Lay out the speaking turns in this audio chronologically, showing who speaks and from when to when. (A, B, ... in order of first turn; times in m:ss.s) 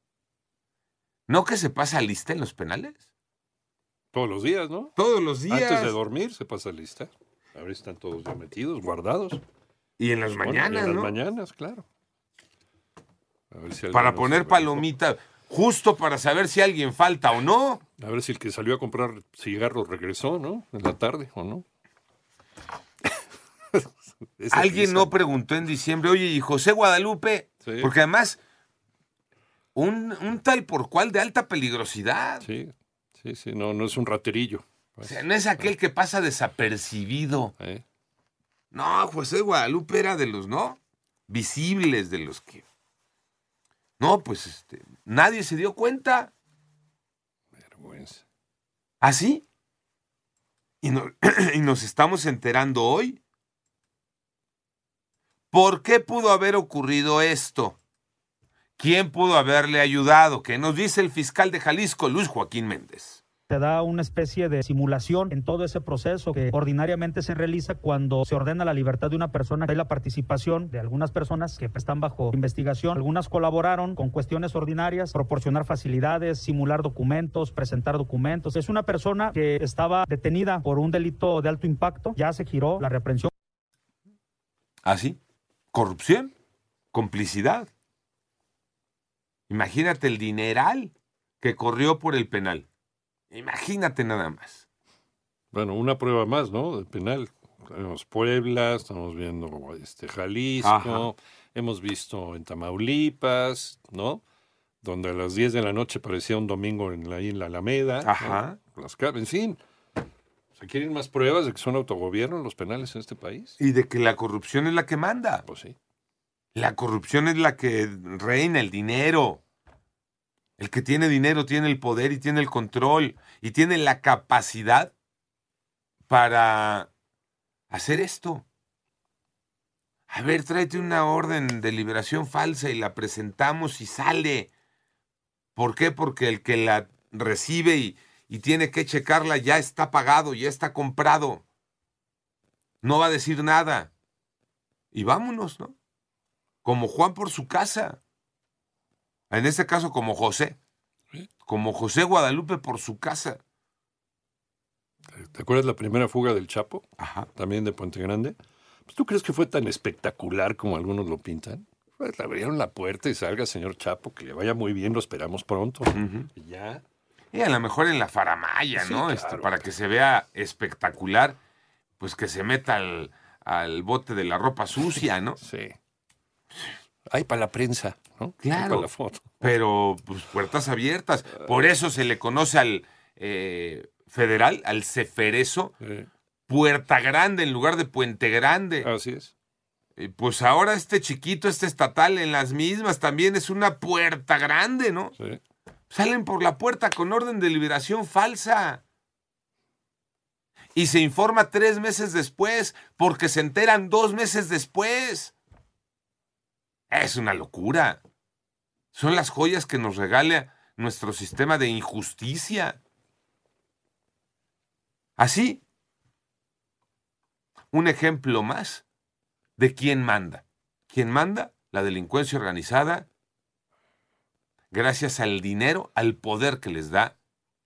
0:01.3-0:03.0 A
0:04.1-0:04.9 B
0:05.0-0:06.0 A
0:05.5-0:09.4 B
0:10.0-0:11.1 A
0:10.3-0:11.8 B
0:13.5-0:14.9 B
0:13.9-0:17.8 A
0:18.0-0:21.6 B
0:23.7-0:25.1 B
0:24.5-0:28.4 A
0:27.6-0:27.9 B
0:29.8-0:32.5 A
0:32.4-0:35.7 B
0:35.0-0:37.5 A
0:37.6-0:37.8 B
0:38.7-0:42.6 A
0:44.0-0:46.3 A
0:47.6-0:48.2 B
0:49.0-0:49.4 A
0:50.8-0:53.2 A
0:55.5-0:57.8 A
0:58.8-1:03.2 A
1:03.5-1:23.3 C
1:24.8-1:25.2 A
1:25.7-1:26.3 A
1:26.9-1:27.7 A
1:29.5-1:32.7 A
1:33.3-1:34.6 A
1:35.5-1:44.2 B
1:40.6-1:41.1 A
1:44.8-1:49.6 B
1:48.0-1:48.6 A
1:50.6-1:53.6 B
1:53.6-1:55.4 A
1:55.5-1:55.8 B
1:56.6-1:59.4 A
2:00.6-2:04.9 A
2:06.1-2:06.9 A
2:07.7-2:08.5 A
2:10.1-2:14.5 A
2:15.6-2:21.4 A
2:22.8-2:23.9 A
2:24.9-2:25.8 A
2:26.6-2:28.0 A
2:29.3-2:30.6 A
2:31.5-2:33.4 A
2:35.2-2:46.8 B
2:37.0-2:37.3 A
2:46.0-2:46.3 A
2:47.3-2:51.4 A
2:48.8-2:49.5 B
2:52.0-2:55.4 A
2:55.4-2:55.8 B
2:57.1-2:59.5 B
2:58.4-2:58.9 A
2:59.4-3:05.7 A
3:05.8-3:06.1 B
3:06.5-3:08.9 A
3:08.8-3:09.3 B
3:10.0-3:15.2 A
3:15.9-3:18.8 A
3:20.8-3:25.4 A
3:26.9-3:28.0 A
3:28.9-3:32.8 A
3:35.2-3:35.6 A
3:37.7-3:38.8 A
3:39.6-3:43.1 A
3:44.7-3:47.2 A